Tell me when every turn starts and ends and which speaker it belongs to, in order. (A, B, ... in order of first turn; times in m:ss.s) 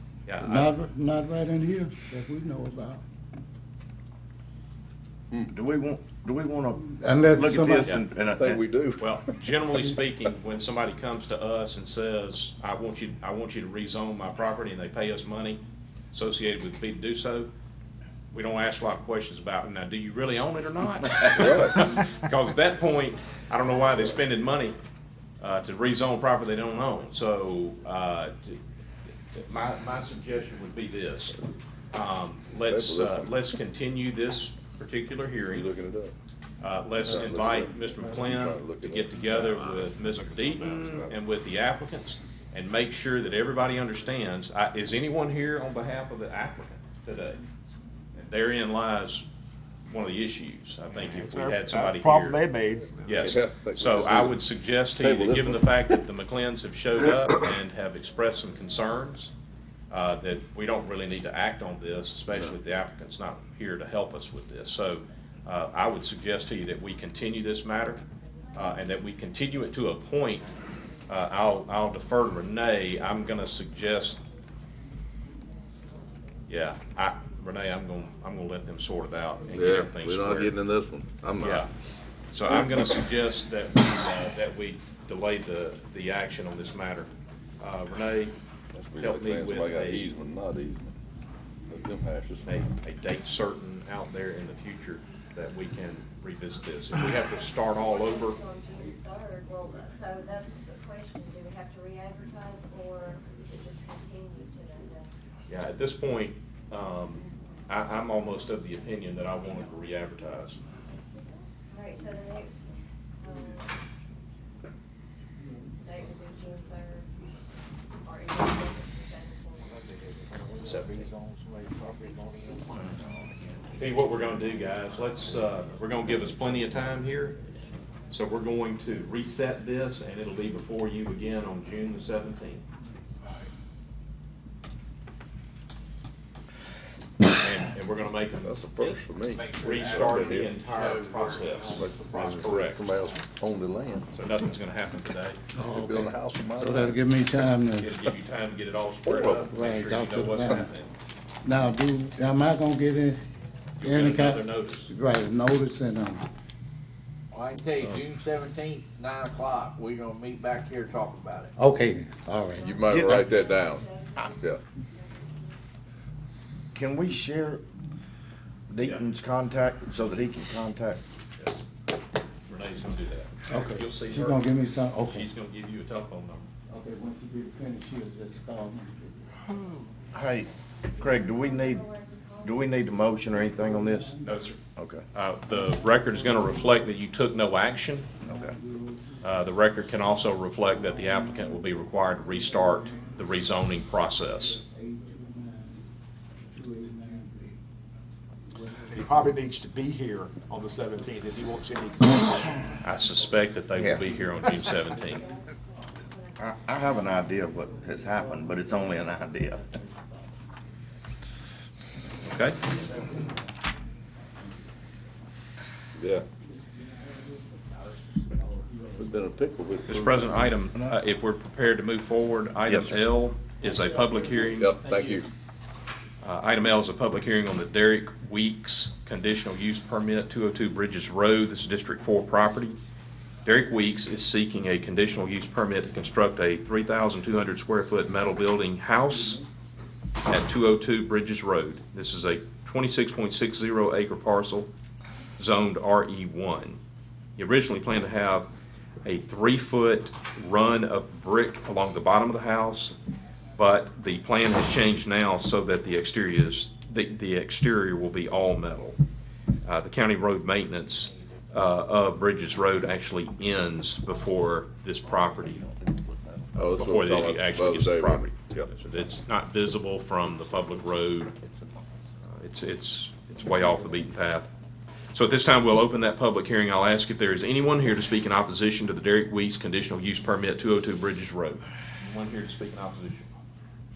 0:00.3-0:00.7 A
0:00.4-0:03.0 B
0:05.5-0:08.6 C
0:07.0-0:08.0 B
0:08.4-0:09.6 D
0:09.0-0:15.6 A
0:16.1-0:17.5 A
0:18.3-0:24.8 A
0:21.4-0:21.8 D
0:25.4-0:28.6 A
0:29.3-0:31.4 A
0:31.9-0:35.7 A
0:32.6-0:33.5 D
0:35.5-0:36.1 D
0:36.6-0:47.4 A
0:37.0-0:41.1 D
0:48.2-0:49.2 A
0:49.9-0:52.4 A
0:51.0-0:53.2 E
0:53.0-0:59.3 A
0:53.1-0:54.4 D
0:55.0-0:56.0 D
0:59.9-1:08.0 A
1:08.5-1:10.4 A
1:11.1-1:14.2 A
1:16.5-1:20.6 A
1:19.5-1:21.7 D
1:21.4-1:21.7 A
1:22.3-1:28.4 A
1:28.7-1:30.9 D
1:29.0-1:30.1 A
1:31.7-1:32.7 D
1:32.4-1:38.4 A
1:37.8-1:45.1 F
1:45.5-1:50.6 A
1:51.1-1:53.8 F
1:55.8-1:57.1 F
1:58.0-1:59.8 F
2:00.3-2:03.6 G
2:00.6-2:01.1 A
2:03.8-2:07.4 A
2:08.1-2:12.6 A
2:17.4-2:22.8 A
2:18.4-2:20.6 D
2:19.3-2:22.2 G
2:21.8-2:24.1 D
2:24.1-2:25.4 A
2:25.5-2:28.1 B
2:25.6-2:27.0 D
2:27.8-2:30.9 A
2:29.0-2:29.5 D
2:29.4-2:30.7 B
2:31.4-2:33.2 B
2:33.8-2:34.9 A
2:33.8-2:36.2 B
2:37.3-2:41.5 G
2:41.6-2:42.6 B
2:42.5-2:45.6 F
2:42.6-2:44.6 D
2:42.9-2:43.2 C
2:46.7-2:47.6 C
2:48.7-2:51.0 C
2:51.4-2:51.6 A
2:52.5-2:54.5 A
2:53.5-2:55.3 B
2:55.0-2:56.5 A
2:56.7-2:59.2 B
3:00.1-3:01.9 C
3:00.9-3:03.6 F
3:02.4-3:04.1 C
3:03.6-3:04.4 B
3:04.2-3:04.6 A
3:04.8-3:05.0 C
3:05.1-3:08.1 A
3:05.8-3:06.5 B
3:08.2-3:08.5 C
3:08.2-3:09.3 B
3:09.2-3:14.6 A
3:10.6-3:13.3 B
3:14.3-3:15.9 B
3:16.5-3:17.6 B
3:18.5-3:19.4 B
3:18.9-3:22.7 E
3:22.8-3:25.3 A
3:23.7-3:24.1 C
3:25.0-3:27.7 F
3:26.4-3:29.7 C
3:28.1-3:30.2 B
3:32.2-3:32.6 A
3:36.0-3:36.2 D
3:38.9-3:40.4 D
3:39.8-3:44.8 A
3:42.7-3:43.0 C
3:44.4-3:45.2 G
3:44.6-3:45.3 D
3:46.2-3:52.8 A
3:53.4-3:59.4 A
4:00.2-4:04.7 A
4:05.4-4:06.8 A
4:07.4-4:08.5 A
4:09.0-4:12.9 A
4:13.6-4:19.0 A
4:19.6-4:25.7 A
4:26.5-4:31.4 A
4:26.6-4:28.7 D
4:32.3-4:34.5 A
4:35.1-4:43.3 A